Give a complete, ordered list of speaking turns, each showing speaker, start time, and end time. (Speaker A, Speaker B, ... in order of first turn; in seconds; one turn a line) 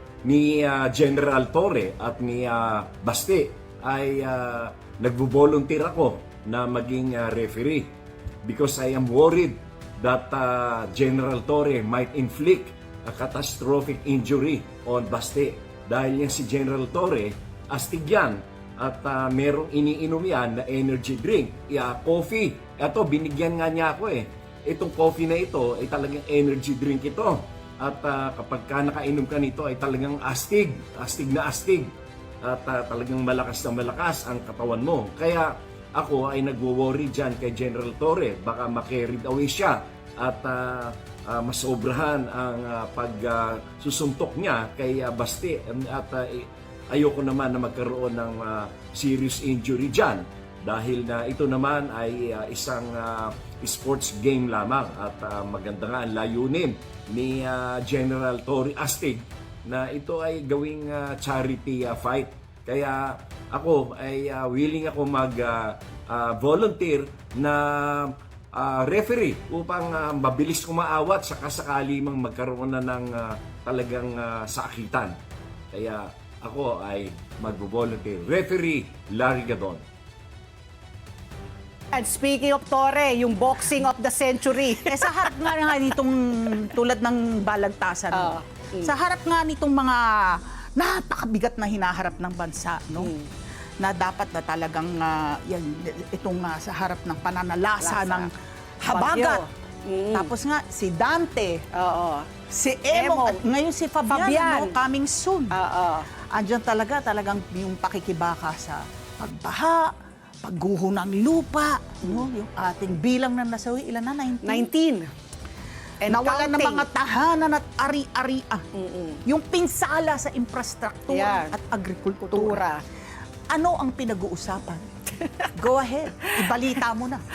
Speaker A: 0.2-75.2
Speaker A: 75.7-79.8
Speaker B: 81.9-85.5
Speaker C: 84.8-93.1
Speaker B: 88.1-88.9
Speaker B: 93.0-93.3
Speaker C: 93.8-99.4
Speaker B: 97.8-98.3
Speaker B: 98.9-100.3
Speaker C: 100.1-101.6
Speaker B: 101.7-102.3
Speaker C: 102.5-105.5
Speaker B: 102.9-103.4
Speaker B: 104.0-104.7
Speaker B: 105.5-106.1
Speaker C: 106.3-114.7
Speaker B: 114.4-115.1
Speaker B: 116.0-116.9
Speaker C: 116.1-118.6
Speaker B: 118.7-119.2
Speaker C: 119.2-122.6
Speaker B: 121.1-121.5
Speaker B: 122.3-122.8
Speaker C: 123.5-124.8
Speaker C: 125.6-127.2